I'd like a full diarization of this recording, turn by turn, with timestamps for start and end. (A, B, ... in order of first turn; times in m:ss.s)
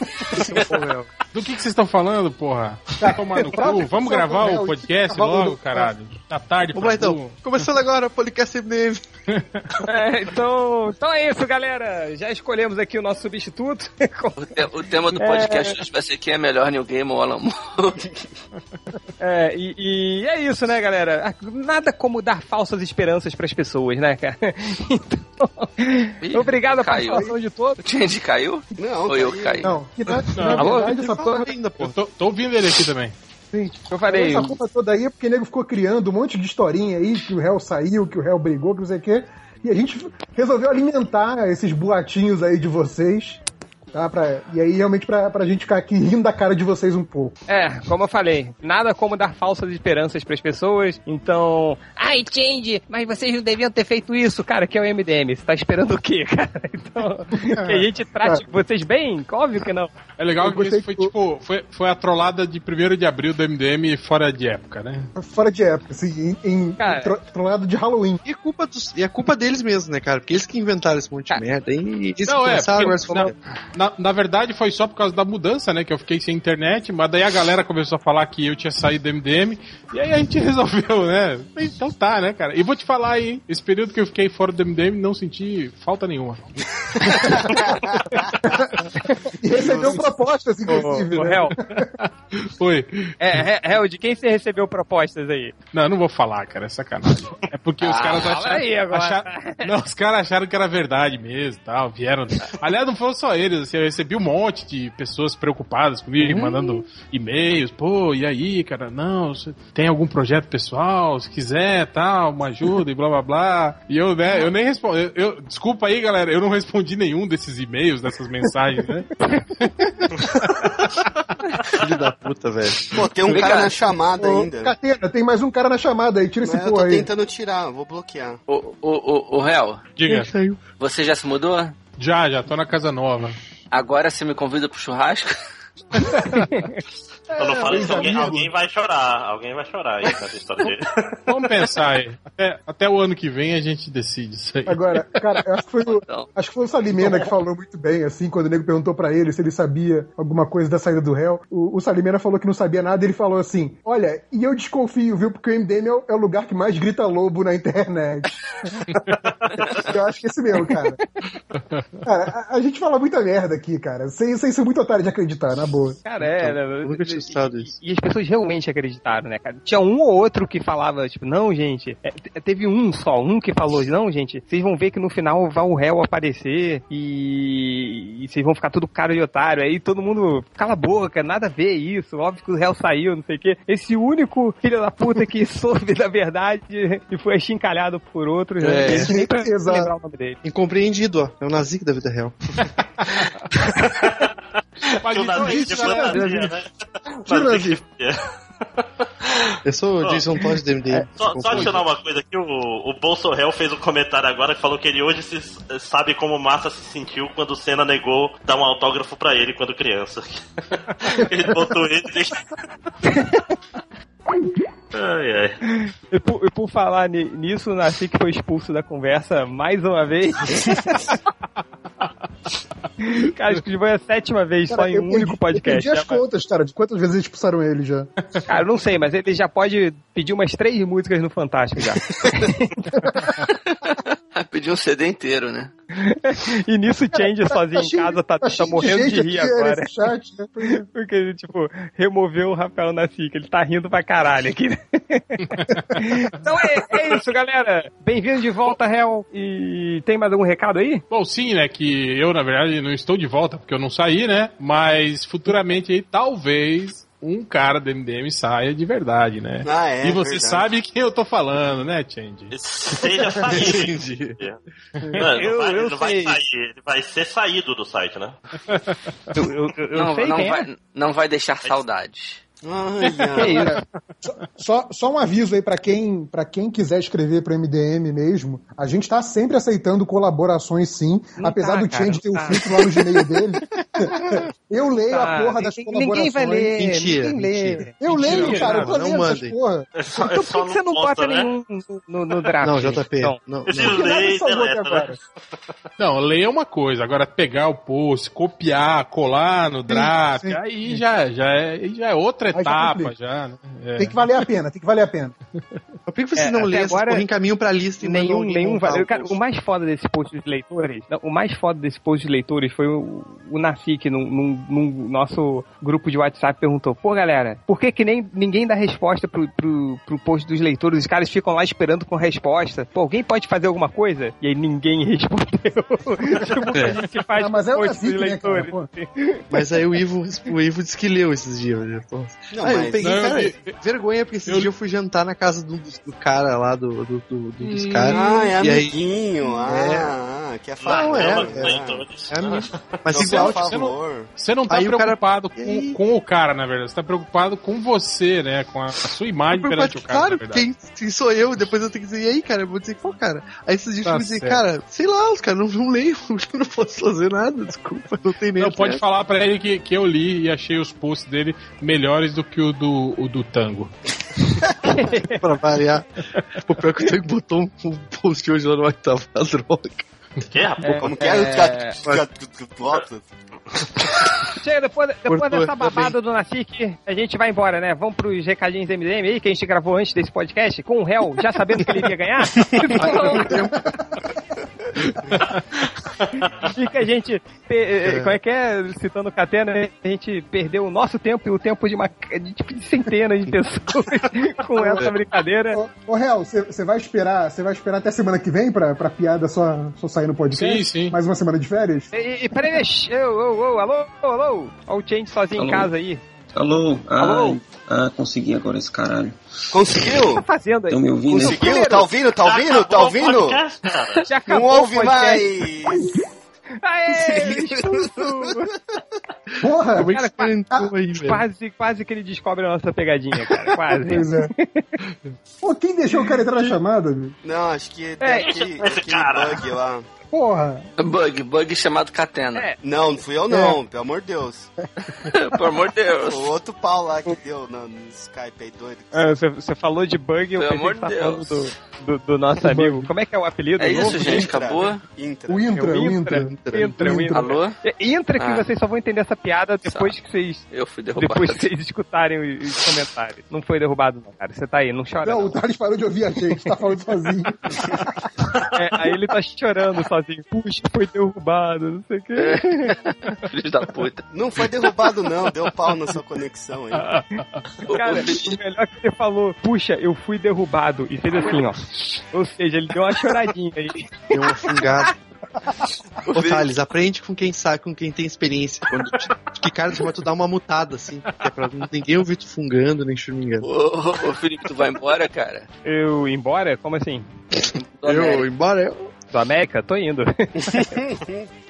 0:00.3-0:01.1 A
0:01.3-0:07.6 B
0:03.0-0:05.9 C
0:06.7-0:09.0 A
0:09.3-0:09.6 B
0:09.8-0:14.4 D
0:14.4-0:18.0 E
0:15.2-0:15.8 D
0:19.2-0:27.8 D
0:26.2-0:27.2 E
0:27.8-0:29.7 E
0:28.8-0:29.8 F
0:29.6-0:31.4 C
0:30.3-0:30.7 B
0:30.6-0:31.4 D
0:30.7-0:31.9 A
0:31.8-0:33.1 B
0:33.5-0:43.4 C
0:33.9-0:34.6 D
0:43.9-0:47.3 C
0:47.5-0:59.9 D
0:57.4-0:58.4 C
1:00.2-1:05.1 B
1:00.4-1:01.1 C
1:05.1-1:08.2 C
1:06.8-1:07.1 D
1:08.2-1:13.3 A
1:12.2-1:26.4 B
1:27.0-1:27.4 B
1:27.1-1:28.0 F
1:28.4-1:31.9 C
1:30.7-1:31.5 D
1:31.7-1:33.1 B
1:33.2-1:35.5 D
1:35.7-1:59.1 B
1:37.8-1:39.7 D
1:46.2-1:46.5 A
2:00.2-2:01.1 B
2:01.7-2:02.8 A
2:02.9-2:04.7 F
2:03.3-2:03.7 E
2:04.2-2:07.1 C
2:06.4-2:08.4 F
2:08.5-2:09.8 E
2:10.0-2:10.3 B
2:10.0-2:10.6 A
2:10.8-2:11.7 E
2:12.0-2:13.4 B
2:13.7-2:15.3 E
2:16.0-2:16.5 B
2:16.3-2:16.8 D
2:17.3-2:18.5 C
2:17.4-2:21.7 G
2:21.3-2:25.2 B
2:24.7-2:39.0 C
2:25.9-2:26.3 E
2:39.5-2:41.0 C
2:41.5-2:42.0 B
2:42.0-2:46.0 C
2:46.0-3:10.4 D
2:46.2-2:47.7 A
3:08.6-3:09.1 A
3:08.9-3:09.9 C
3:10.4-3:12.3 A
3:13.8-3:14.3 G
3:15.0-3:16.2 B
3:15.0-3:16.7 G
3:15.3-3:16.6 C
3:17.2-3:17.8 C
3:17.3-3:18.2 G
3:18.8-3:19.5 G
3:19.6-3:21.8 A
3:21.1-3:32.4 G
3:33.0-3:33.4 D
3:34.9-3:35.6 G
3:35.8-3:41.0 D
3:43.0-3:46.2 D
3:44.7-3:48.1 C
3:48.5-3:53.1 D
3:52.9-3:53.5 C
3:53.7-3:55.7 E
3:55.9-3:59.9 D
3:57.7-4:00.8 C
4:00.6-4:05.4 D
4:05.9-4:11.0 D
4:11.1-4:22.5 B
4:19.6-4:20.7 F
4:22.5-4:24.6 G
4:23.4-4:24.4 A
4:23.5-4:23.9 B
4:25.1-4:28.4 G
4:25.2-4:26.4 D
4:29.3-4:30.6 D
4:29.9-4:32.4 E
4:32.6-4:33.7 F
4:33.0-4:33.6 B
4:33.4-4:33.8 D
4:33.5-4:46.8 C
4:41.4-4:42.7 D
4:45.1-4:48.9 D
4:46.7-4:49.6 A
4:48.0-4:49.9 C
4:48.1-4:49.0 B
4:49.9-4:51.5 G
4:50.1-4:53.4 D
4:52.6-4:54.1 A
4:53.6-4:55.2 G
4:53.8-4:55.2 C
4:56.0-5:04.5 B
4:59.9-5:01.0 C
5:02.5-5:03.1 C
5:04.0-5:05.4 C
5:06.1-5:09.4 A
5:06.4-5:07.2 D
5:08.0-5:29.4 D
5:26.5-5:28.9 C
5:29.5-5:39.0 A
5:32.5-5:33.3 F
5:33.0-5:33.7 B
5:34.4-5:34.7 B
5:37.6-5:38.5 B
5:38.1-5:42.0 F
5:39.6-5:40.1 A
5:40.8-5:43.0 G
5:40.9-5:43.7 A
5:43.1-5:44.3 F
5:43.1-5:50.7 B
5:44.7-5:46.0 A
5:49.5-5:59.0 A
5:54.0-5:54.6 B
5:58.6-6:03.9 B
6:04.8-6:05.4 D
6:05.3-6:06.1 A
6:06.6-6:10.0 A
6:10.5-6:11.1 G
6:10.8-6:12.0 D
6:11.0-6:13.2 F
6:14.6-6:23.6 D
6:15.3-6:16.1 A
6:22.9-6:23.8 A
6:26.6-6:35.8 D
6:28.0-6:28.3 A
6:34.8-6:35.1 C
6:35.7-6:42.1 C
6:40.5-6:41.2 B
6:42.1-6:46.2 D
6:45.5-6:45.9 H
6:46.5-6:49.3 H
6:47.2-6:47.6 D
6:49.7-6:50.4 F
6:50.1-6:52.1 D
6:50.9-6:51.8 H
6:51.3-6:53.6 F
6:52.4-6:54.3 G
6:54.2-6:55.5 D
6:54.5-6:56.1 F
6:56.8-6:58.7 D
6:57.4-6:57.9 F
6:59.6-7:00.1 C
6:59.9-7:01.4 A
7:00.0-7:00.5 D
7:01.2-7:04.9 D
7:04.0-7:04.5 C
7:05.6-7:07.4 C
7:07.4-7:10.0 F
7:08.2-7:08.5 D
7:08.4-7:09.6 G
7:10.3-7:10.9 C
7:11.0-7:12.6 E
7:12.8-7:14.7 F
7:13.5-7:13.8 C
7:14.8-7:15.6 C
7:15.3-7:16.5 E
7:16.3-7:19.2 F
7:19.1-7:24.5 D
7:20.6-7:21.6 E
7:22.6-7:23.1 C
7:23.8-7:25.0 E
7:24.0-7:25.8 F
7:25.5-7:27.6 C
7:25.7-7:30.6 D
7:26.3-7:27.0 A
7:27.3-7:27.8 E
7:28.4-7:28.6 E
7:29.8-7:30.1 E
7:30.7-7:31.6 E
7:31.2-7:35.6 D
7:35.2-7:38.1 C
7:38.7-7:42.9 D
7:42.4-7:44.2 E
7:44.3-7:47.1 F
7:47.1-7:47.6 B
7:47.9-7:48.6 E
7:47.9-7:54.3 D
7:54.3-7:55.1 A
7:56.3-8:03.7 A
7:56.3-7:56.6 E
8:03.6-8:05.7 E
8:05.8-8:07.3 D
8:07.7-8:08.5 E
8:08.0-8:09.1 A
8:09.3-8:10.9 D
8:10.7-8:11.5 F